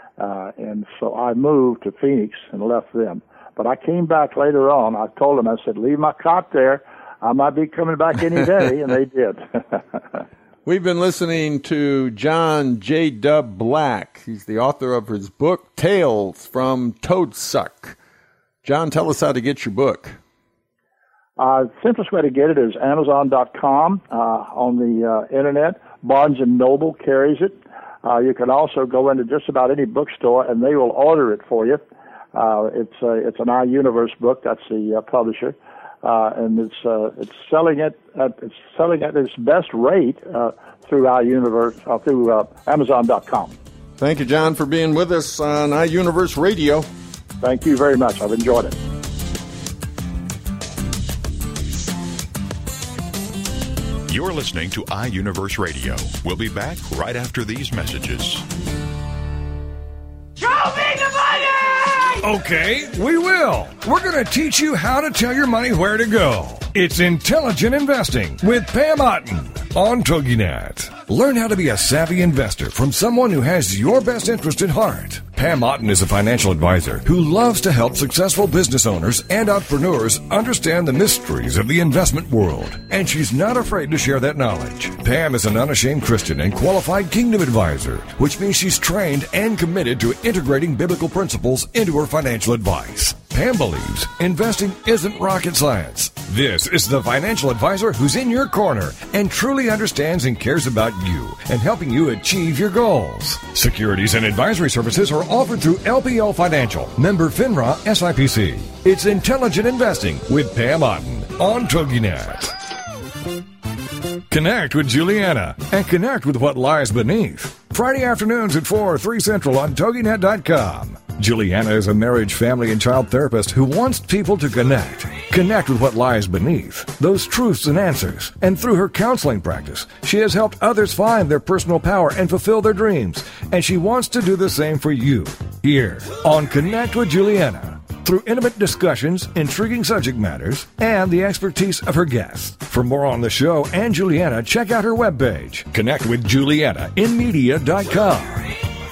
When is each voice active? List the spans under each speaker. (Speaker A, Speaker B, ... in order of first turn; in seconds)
Speaker A: 0.2-10.2, 21.4-31.8, 32.3-43.5, 47.4-48.8
Speaker B: 10.6-18.0, 18.6-20.2, 44.0-46.9
Speaker C: 54.1-58.5
Speaker D: 62.0-112.5, 114.3-148.5